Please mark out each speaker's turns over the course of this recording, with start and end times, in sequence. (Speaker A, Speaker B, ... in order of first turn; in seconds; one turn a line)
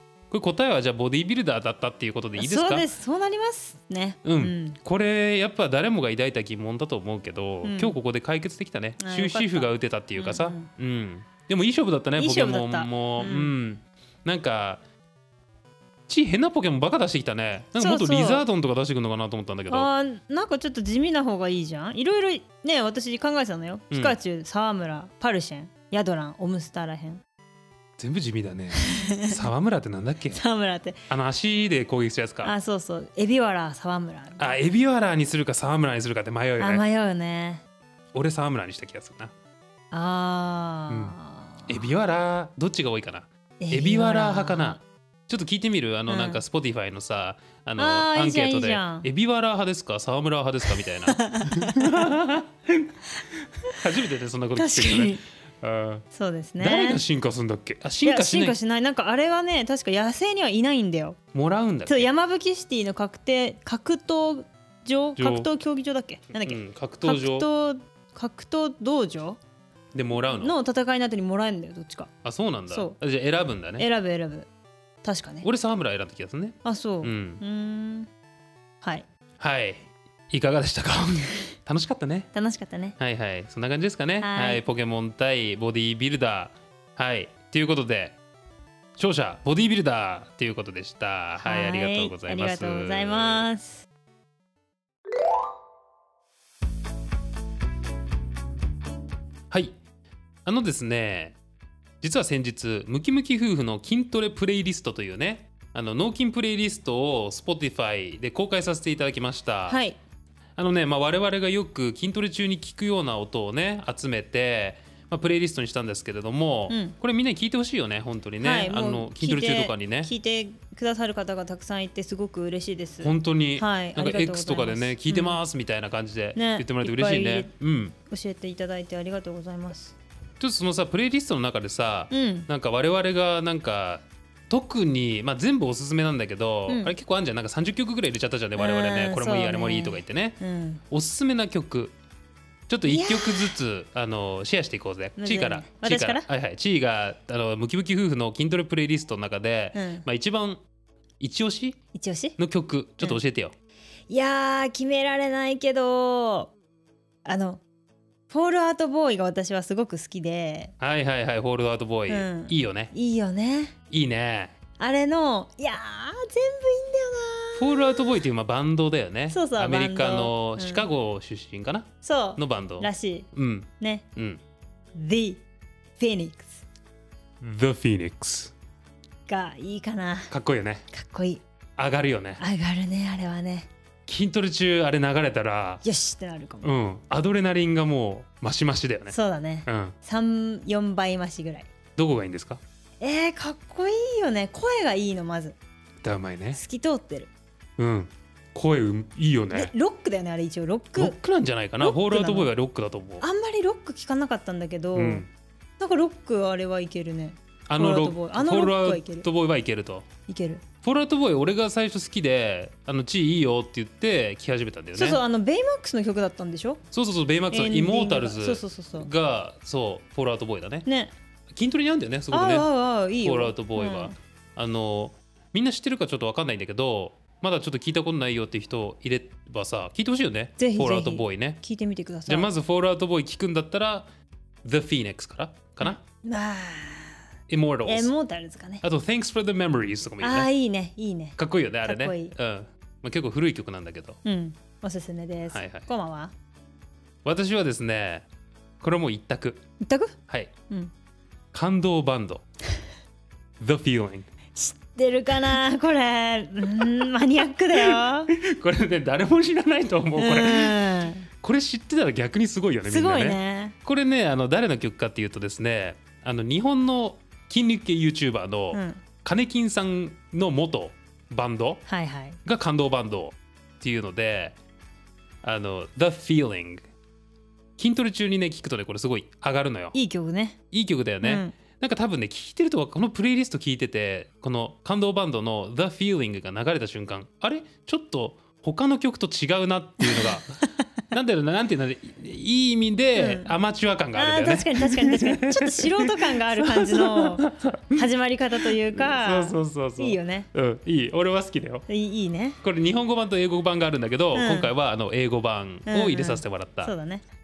Speaker A: 0.3-2.9
Speaker B: 2.4-4.8
Speaker A: 4.2-14.8
Speaker B: 7.6-8.0
Speaker B: 9.0-10.7
Speaker B: 12.2-13.5
Speaker A: 16.1-19.9
Speaker B: 17.8-18.4
Speaker B: 19.7-27.2
Speaker A: 23.9-24.2
Speaker A: 28.0-30.4
Speaker B: 28.8-29.5
Speaker B: 30.3-31.0
Speaker A: 31.1-32.5
Speaker B: 32.4-34.6
Speaker A: 34.4-36.8
Speaker B: 36.6-37.6
Speaker A: 38.1-39.3
Speaker B: 39.9-41.9
Speaker A: 40.9-52.9
Speaker B: 43.6-44.8
Speaker B: 46.1-46.4
Speaker B: 47.8-49.1
Speaker B: 51.1-52.2
Speaker A: 53.6-56.0
Speaker B: 54.5-55.2
Speaker B: 56.1-57.0
Speaker A: 56.6-58.6
Speaker B: 58.0-61.2
Speaker A: 61.3-62.1
Speaker B: 61.9-69.4
Speaker A: 65.2-65.5
Speaker A: 66.4-67.5
Speaker A: 69.9-70.5
Speaker B: 70.2-72.1
Speaker A: 72.2-73.9
Speaker B: 72.7-73.0
Speaker B: 73.8-74.5
Speaker B: 75.0-75.5
Speaker A: 75.4-77.4
Speaker B: 76.6-78.1
Speaker A: 79.4-82.3
Speaker B: 82.3-83.0
Speaker A: 83.0-88.2
Speaker B: 84.2-84.6
Speaker A: 89.0-93.5
Speaker B: 91.4-93.8
Speaker A: 99.5-99.8
Speaker A: 100.4-101.4
Speaker A: 102.0-109.8
Speaker B: 109.7-110.0
Speaker A: 110.6-120.1
Speaker B: 116.7-117.0
Speaker B: 118.4-125.4
Speaker A: 123.0-127.9
Speaker B: 126.3-127.5
Speaker B: 128.1-129.9
Speaker A: 130.4-141.9
Speaker B: 132.1-132.5
Speaker B: 136.7-136.9
Speaker B: 138.6-140.8
Speaker A: 142.7-150.6
Speaker B: 142.8-143.6
Speaker B: 145.2-146.3
Speaker B: 149.7-150.1
Speaker A: 151.2-151.8
Speaker B: 151.9-152.3
Speaker A: 152.4-153.5
Speaker B: 154.1-156.5
Speaker B: 157.2-157.6
Speaker B: 158.3-160.7
Speaker A: 160.8-162.9
Speaker B: 162.1-163.7
Speaker A: 163.9-164.5
Speaker B: 164.8-168.2
Speaker A: 167.6-174.4
Speaker B: 169.3-170.9
Speaker B: 172.0-173.3
Speaker B: 173.8-174.1
Speaker B: 174.9-175.4
Speaker B: 176.0-176.6
Speaker A: 177.4-178.5
Speaker B: 179.3-180.3
Speaker A: 180.3-180.8
Speaker B: 180.9-181.4
Speaker A: 181.8-182.4
Speaker B: 182.4-183.7
Speaker A: 184.1-185.8
Speaker B: 185.8-186.7
Speaker A: 186.6-189.1
Speaker B: 189.1-191.7
Speaker A: 189.7-189.9
Speaker A: 192.0-192.6
Speaker B: 193.0-195.6
Speaker A: 196.0-196.6
Speaker B: 196.6-197.3
Speaker A: 197.8-199.7
Speaker B: 199.5-201.2
Speaker A: 200.9-203.2
Speaker B: 201.8-202.5
Speaker B: 203.2-205.2
Speaker A: 204.9-205.3
Speaker B: 205.8-209.2
Speaker A: 207.7-210.1
Speaker B: 210.3-210.6
Speaker A: 210.8-215.2
Speaker B: 214.9-216.8
Speaker A: 216.9-220.8
Speaker B: 217.5-219.1
Speaker B: 220.8-221.1
Speaker A: 221.5-222.7
Speaker B: 222.3-224.1
Speaker A: 223.2-231.6
Speaker B: 230.6-232.5
Speaker A: 232.3-234.1
Speaker A: 234.6-236.0
Speaker B: 235.8-237.2
Speaker A: 237.5-238.1
Speaker B: 237.8-238.8
Speaker A: 238.8-240.5
Speaker B: 240.2-242.3
Speaker A: 241.4-244.2
Speaker B: 244.2-246.3
Speaker A: 245.5-245.9
Speaker A: 247.2-248.3
Speaker A: 248.8-249.6
Speaker B: 249.8-250.2
Speaker A: 251.5-252.4
Speaker A: 253.6-254.3
Speaker B: 254.5-258.3
Speaker A: 257.7-271.8
Speaker B: 260.2-261.3
Speaker B: 262.9-263.8
Speaker B: 268.7-269.0
Speaker B: 271.9-272.4
Speaker A: 272.4-274.6
Speaker A: 275.4-276.8
Speaker A: 277.8-279.9
Speaker B: 279.9-280.6
Speaker A: 280.7-298.1
Speaker B: 281.2-281.5
Speaker B: 290.0-290.4
Speaker B: 293.1-293.5
Speaker B: 294.1-300.5
Speaker A: 298.6-301.9
Speaker B: 301.9-302.6
Speaker A: 302.6-306.9
Speaker B: 304.3-304.7
Speaker B: 305.9-307.2